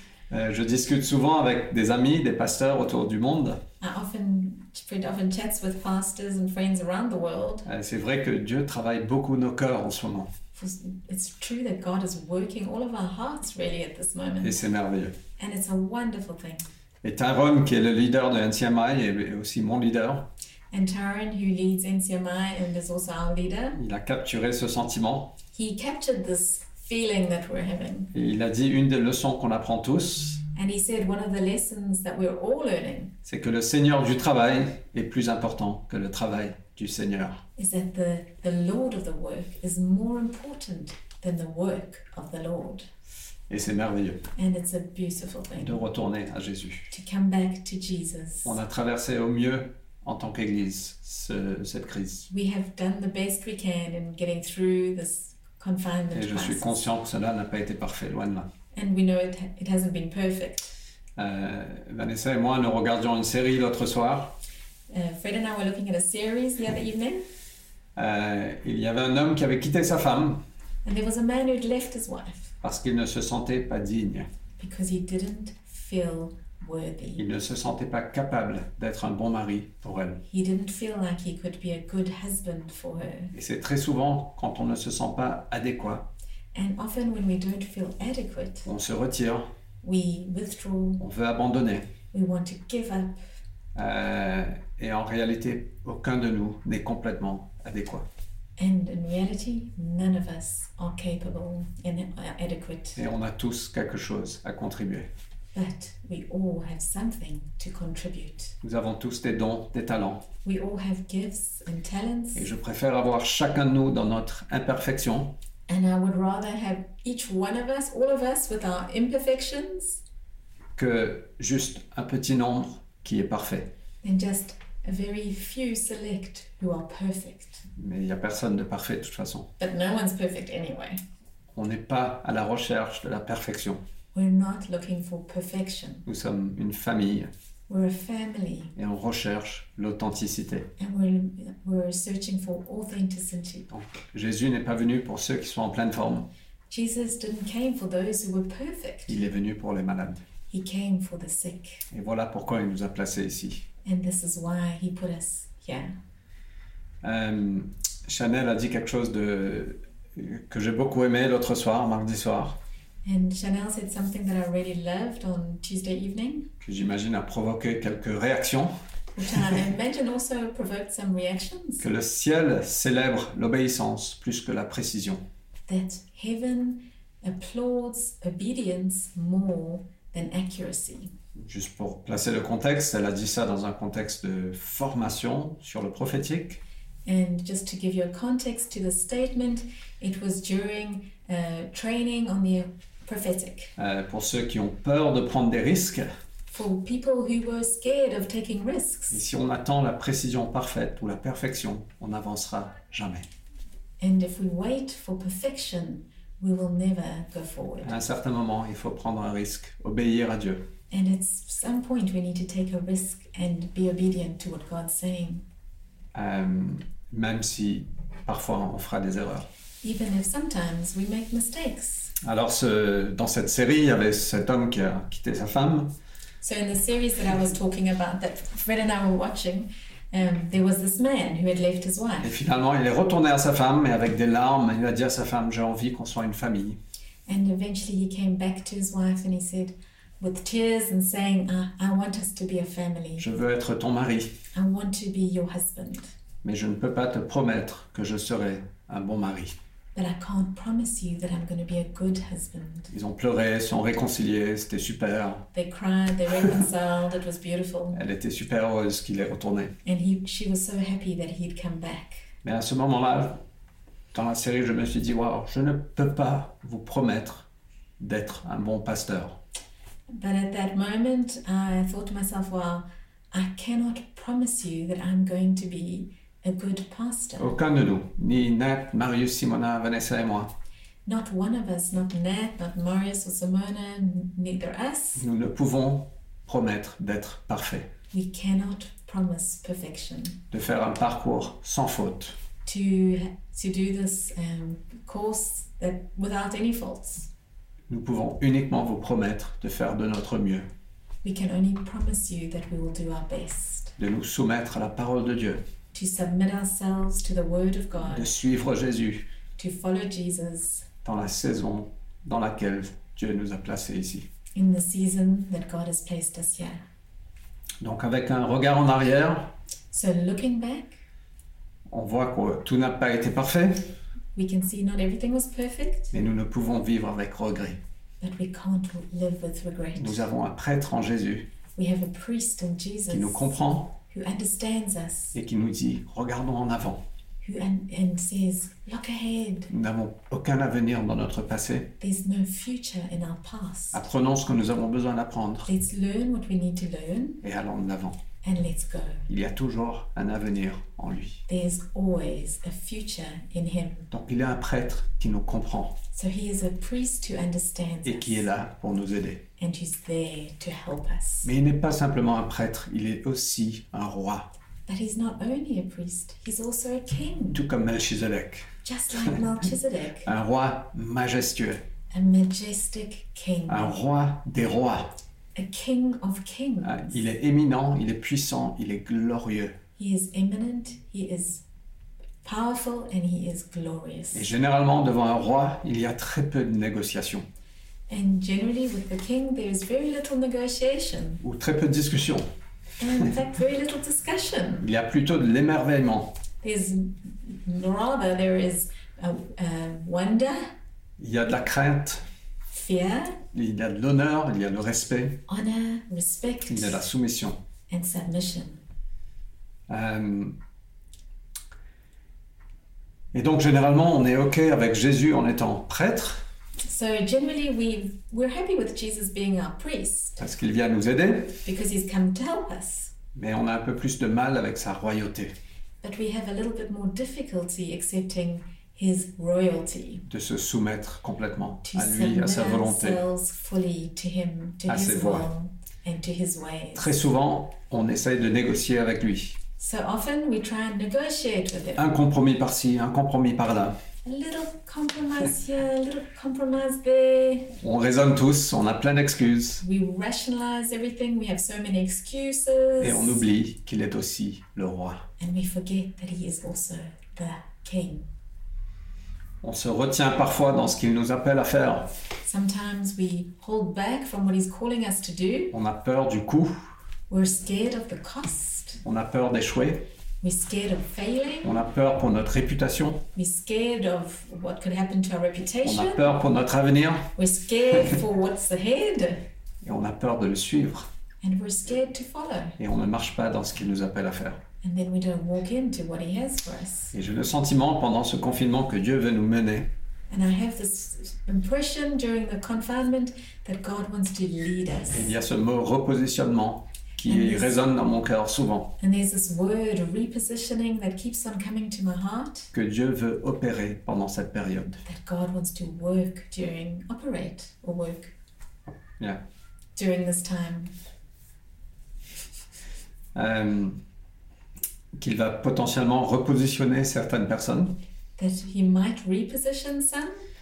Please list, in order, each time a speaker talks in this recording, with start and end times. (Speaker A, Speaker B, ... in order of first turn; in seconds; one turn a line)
Speaker A: 0.3-3.6
Speaker B: 3.8-7.7
Speaker A: 7.7-10.3
Speaker B: 10.5-14.6
Speaker A: 14.4-15.1
Speaker B: 15.4-16.7
Speaker A: 17.0-20.3
Speaker B: 20.7-23.8
Speaker A: 23.7-25.4
Speaker B: 25.5-28.1
Speaker A: 28.1-30.4
Speaker B: 30.5-33.1
Speaker A: 33.2-37.4
Speaker B: 37.5-42.9
Speaker A: 43.5-44.3
Speaker B: 44.4-45.8
Speaker A: 45.5-46.9
Speaker B: 46.9-48.6
Speaker A: 48.4-52.3
Speaker B: 52.3-56.8
Speaker A: 56.1-58.5
Speaker B: 58.7-60.7
Speaker A: 61.2-64.4
Speaker B: 64.9-67.2
Speaker A: 68.0-70.4
Speaker B: 70.8-72.5
Speaker A: 72.6-74.3
Speaker B: 74.6-77.2
Speaker A: 77.2-80.2
Speaker B: 80.3-83.3
Speaker A: 83.3-86.1
Speaker B: 86.5-88.7
Speaker A: 88.6-89.5
Speaker B: 89.8-91.0
Speaker A: 91.0-91.9
Speaker B: 92.1-93.2
Speaker A: 93.7-98.0
Speaker B: 98.6-103.0
Speaker A: 103.0-105.1
Speaker B: 105.5-108.5
Speaker A: 108.6-110.2
Speaker B: 110.4-112.5
Speaker A: 112.3-115.3
Speaker B: 115.7-120.0
Speaker A: 120.8-123.7
Speaker B: 124.0-127.6
Speaker A: 127.8-129.5
Speaker B: 129.6-131.0
Speaker A: 131.5-133.8
Speaker B: 134.1-136.1
Speaker A: 136.1-137.3
Speaker B: 137.7-138.7
Speaker A: 138.7-140.7
Speaker B: 140.8-143.7
Speaker A: 143.7-146.3
Speaker B: 146.7-149.2
Speaker A: 149.1-150.2
Speaker B: 150.5-151.8
Speaker A: 151.9-153.7
Speaker B: 153.8-155.9
Speaker A: 157.0-162.6
Speaker B: 163.0-166.5
Speaker A: 166.6-168.7
Speaker B: 169.1-171.8
Speaker A: 171.8-175.2
Speaker B: 175.7-181.1
Speaker A: 181.4-186.6
Speaker B: 187.0-193.7
Speaker A: 193.8-196.1
Speaker B: 196.5-199.2
Speaker A: 199.1-203.3
Speaker B: 204.0-207.9
Speaker A: 207.8-210.7
Speaker B: 210.9-215.4
Speaker A: 216.1-219.5
Speaker B: 219.8-222.1
Speaker A: 222.2-225.9
Speaker B: 226.4-232.3
Speaker A: 232.2-236.8
Speaker B: 237.2-243.2
Speaker A: 243.2-244.4
Speaker B: 244.5-246.1
Speaker A: 246.4-249.6
Speaker B: 249.9-252.9
Speaker A: 252.9-255.5
Speaker B: 255.5-258.0
Speaker A: 257.9-259.7
Speaker B: 259.8-262.2
Speaker A: 262.4-263.4
Speaker A: 264.1-267.5
Speaker A: 268.0-269.4
Speaker B: 270.1-277.5
Speaker A: 277.4-280.5
Speaker B: 281.1-285.2
Speaker A: 285.1-287.9
Speaker B: 288.1-290.4
Speaker A: 290.5-292.4
Speaker B: 292.6-297.3
Speaker A: 297.9-300.7
Speaker B: 301.2-303.9
Speaker A: 304.0-305.6
Speaker B: 305.9-308.3
Speaker A: 308.0-309.3
Speaker B: 309.6-310.9
Speaker A: 311.0-314.3
Speaker B: 314.5-316.8
Speaker A: 317.8-319.5
Speaker B: 319.9-321.0
Speaker A: 321.9-323.9
Speaker B: 324.3-326.1
Speaker A: 326.1-327.8
Speaker B: 328.2-330.3
Speaker A: 329.9-331.5
Speaker B: 331.8-335.3
Speaker A: 333.1-333.9
Speaker A: 335.3-337.0
Speaker B: 337.4-339.7
Speaker A: 339.7-341.9
Speaker B: 342.0-344.0
Speaker A: 343.9-345.7
Speaker B: 345.6-347.4
Speaker A: 347.4-348.2
Speaker B: 348.4-349.2
Speaker A: 349.3-351.4
Speaker B: 351.5-354.1
Speaker A: 354.1-356.0
Speaker B: 356.1-358.5
Speaker A: 358.0-359.4
Speaker B: 359.6-361.5
Speaker A: 361.4-364.5
Speaker B: 364.9-367.6
Speaker A: 367.5-369.4
Speaker B: 368.8-370.3
Speaker A: 370.2-371.8
Speaker B: 372.1-373.9
Speaker A: 373.7-375.1
Speaker B: 375.5-377.1
Speaker A: 376.8-379.8
Speaker B: 380.0-381.6
Speaker B: 382.4-384.5
Speaker A: 384.3-387.4
Speaker B: 388.1-391.4
Speaker A: 391.4-392.4
Speaker B: 393.0-394.9
Speaker A: 394.8-396.4
Speaker B: 396.6-400.7
Speaker A: 401.2-402.2
Speaker B: 402.7-403.4
Speaker A: 403.5-405.4
Speaker B: 405.5-407.1
Speaker A: 406.7-407.6
Speaker B: 407.9-408.8
Speaker A: 409.9-410.6
Speaker A: 413.3-416.4
Speaker B: 416.8-420.4
Speaker A: 420.4-421.6
Speaker B: 421.6-423.1
Speaker A: 423.3-425.5
Speaker B: 426.0-430.2
Speaker A: 430.3-433.2
Speaker B: 431.8-437.1
Speaker A: 434.9-435.5
Speaker A: 436.9-439.6
Speaker B: 439.8-442.0
Speaker A: 441.9-444.0
Speaker B: 444.2-447.8
Speaker A: 447.8-449.8
Speaker B: 449.8-453.4
Speaker A: 453.0-455.3
Speaker B: 455.4-458.3
Speaker A: 459.6-462.1
Speaker B: 462.4-465.7
Speaker A: 465.7-466.7
Speaker B: 467.3-469.0
Speaker A: 469.0-470.1
Speaker B: 470.4-471.7
Speaker A: 471.6-473.2
Speaker B: 473.3-476.3
Speaker A: 475.8-477.3
Speaker B: 477.4-479.4
Speaker A: 479.8-481.1
Speaker B: 481.4-482.8
Speaker A: 482.8-484.6
Speaker B: 484.8-487.1
Speaker A: 487.1-489.9
Speaker B: 490.3-495.3
Speaker A: 495.1-499.0
Speaker B: 497.2-497.8
Speaker B: 499.0-502.7
Speaker A: 502.7-505.0
Speaker B: 505.0-508.3
Speaker A: 509.0-509.4
Speaker B: 509.9-510.9
Speaker A: 513.3-514.0
Speaker A: 515.2-518.0
Speaker B: 518.4-520.4